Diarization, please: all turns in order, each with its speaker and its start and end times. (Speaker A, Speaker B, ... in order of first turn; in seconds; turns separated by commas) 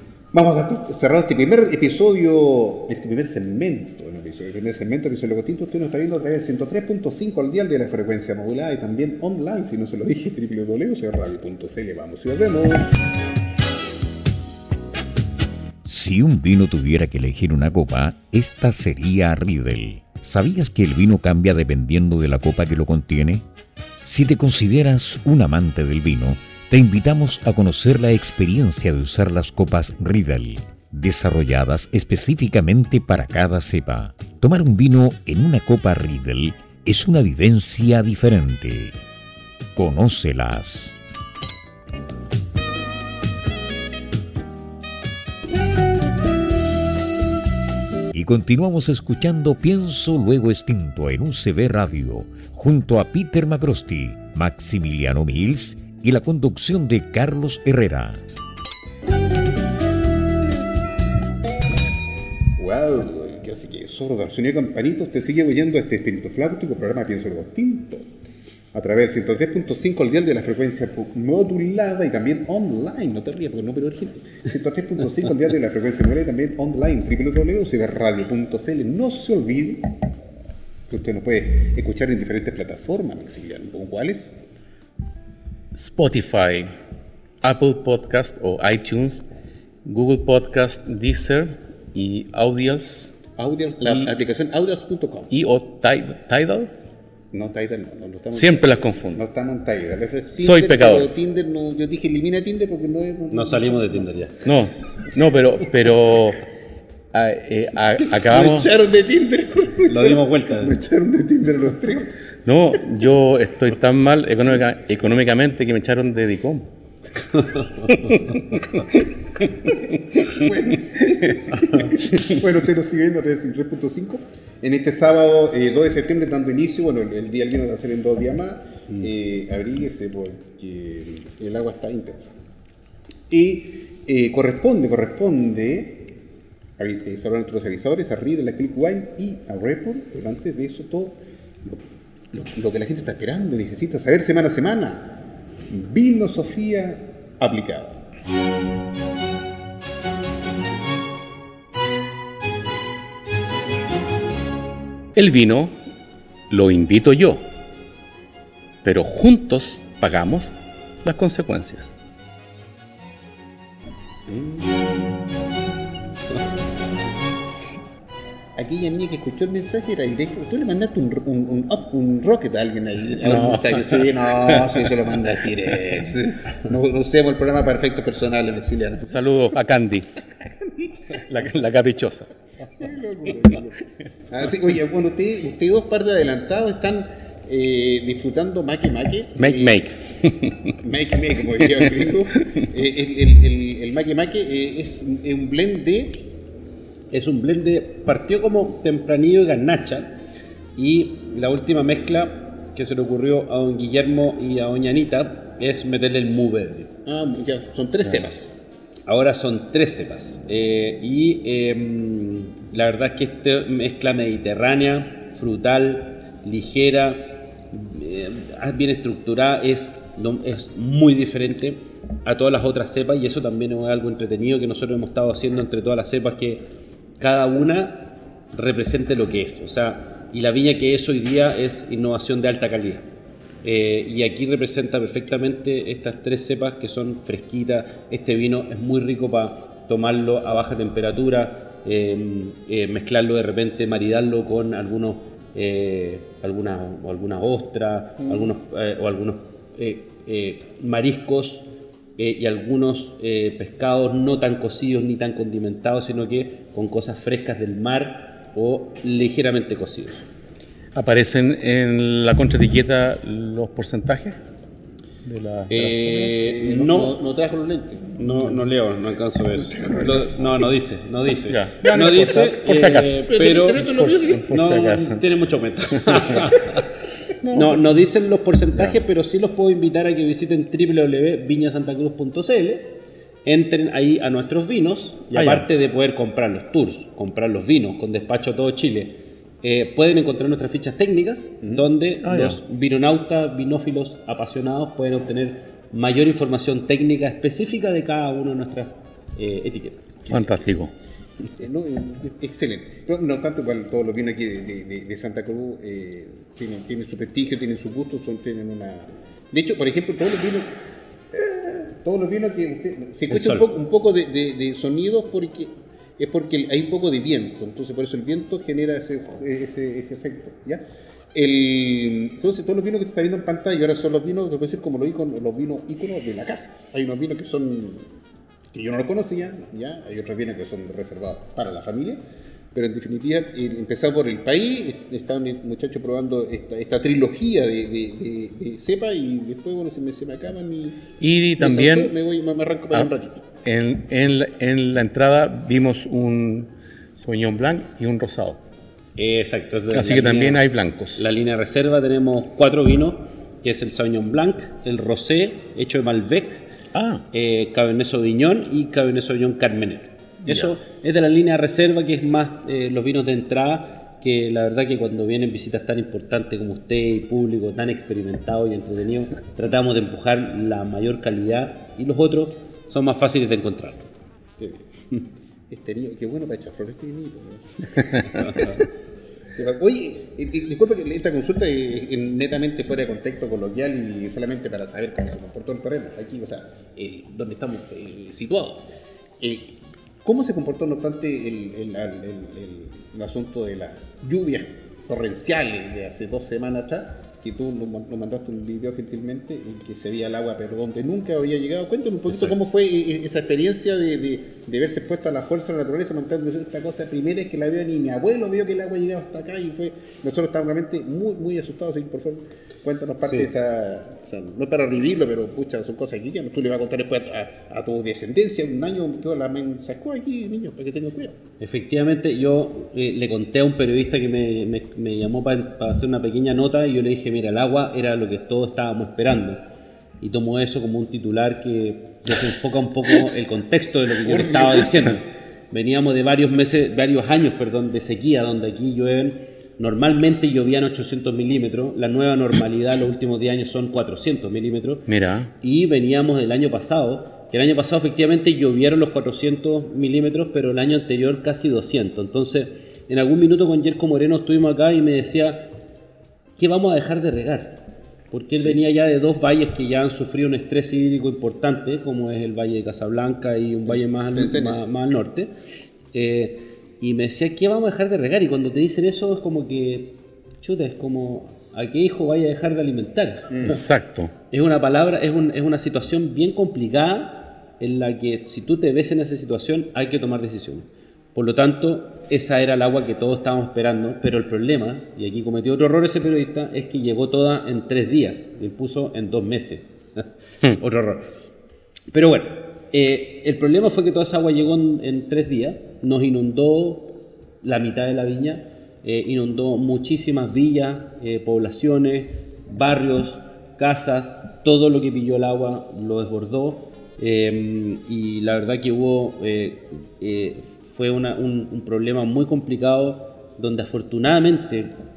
Speaker A: 0.3-12.9, Speaker B: 15.8-23.4, Speaker B: 24.0-39.0, Speaker B: 39.8-41.0, Speaker B: 48.1-58.2, Speaker A: 62.6-68.1, Speaker A: 68.7-79.9, Speaker A: 80.9-84.4, Speaker C: 85.7-86.7, Speaker C: 87.4-89.3, Speaker C: 89.8-93.2, Speaker A: 93.4-95.3, Speaker C: 93.8-94.1, Speaker C: 95.3-96.7, Speaker A: 97.3-104.0, Speaker C: 98.3-99.2, Speaker C: 100.4-101.1, Speaker D: 103.3-104.4, Speaker C: 104.4-106.5, Speaker C: 107.1-108.7, Speaker A: 108.1-112.1, Speaker D: 109.9-110.7, Speaker C: 112.5-116.7, Speaker D: 117.3-117.9, Speaker C: 117.9-118.9, Speaker A: 119.7-132.4, Speaker D: 121.6-121.9, Speaker A: 133.3-136.1, Speaker A: 136.8-148.0, Speaker C: 155.1-155.7, Speaker C: 156.5-157.4, Speaker C: 158.8-161.9, Speaker A: 164.3-165.3, Speaker A: 168.6-179.3, Speaker C: 173.2-174.9, Speaker C: 179.1-180.1, Speaker A: 180.6-181.2, Speaker C: 181.1-182.3, Speaker A: 182.8-189.8, Speaker C: 189.4-190.7, Speaker A: 190.8-196.2, Speaker C: 191.7-192.1, Speaker D: 197.1-200.1, Speaker D: 200.8-206.9, Speaker A: 207.1-208.6, Speaker D: 209.1-226.6, Speaker D: 227.2-233.1, Speaker D: 233.6-251.7, Speaker A: 248.2-248.5, Speaker D: 252.2-260.3, Speaker C: 260.9-264.4, Speaker C: 265.2-266.0, Speaker D: 265.7-267.1, Speaker A: 266.0-268.4, Speaker D: 268.2-273.9, Speaker A: 269.5-270.7, Speaker C: 271.5-275.2, Speaker A: 273.1-274.5, Speaker D: 274.4-276.9, Speaker C: 276.1-276.5, Speaker C: 277.4-277.8, Speaker D: 277.5-300.5, Speaker C: 285.3-285.6, Speaker C: 292.2-292.6, Speaker C: 300.3-300.9, Speaker A: 301.6-310.7, Speaker A: 311.3-328.1, Speaker D: 313.3-313.7, Speaker A: 328.7-332.2, Speaker A: 332.7-343.5, Speaker C: 341.2-342.1, Speaker C: 343.6-348.6, Speaker D: 349.2-350.6, Speaker C: 349.9-351.2, Speaker D: 351.2-356.6, Speaker C: 356.9-357.2, Speaker D: 357.3-374.1, Speaker C: 360.5-360.7, Speaker A: 374.6-374.9, Speaker A: 375.7-378.7, Speaker D: 378.2-378.8, Speaker A: 379.5-388.9, Speaker A: 389.4-421.4, Speaker D: 413.2-413.5, Speaker D: 421.6-429.6, Speaker D: 430.2-445.1, Speaker A: 434.3-434.9, Speaker C: 445.1-445.5, Speaker D: 445.6-455.7, Speaker D: 456.6-457.8, Speaker D: 458.3-465.5, Speaker A: 463.9-464.8, Speaker D: 466.1-473.8, Speaker A: 473.5-473.8, Speaker C: 473.6-474.3, Speaker D: 474.5-491.3, Speaker D: 492.1-514.9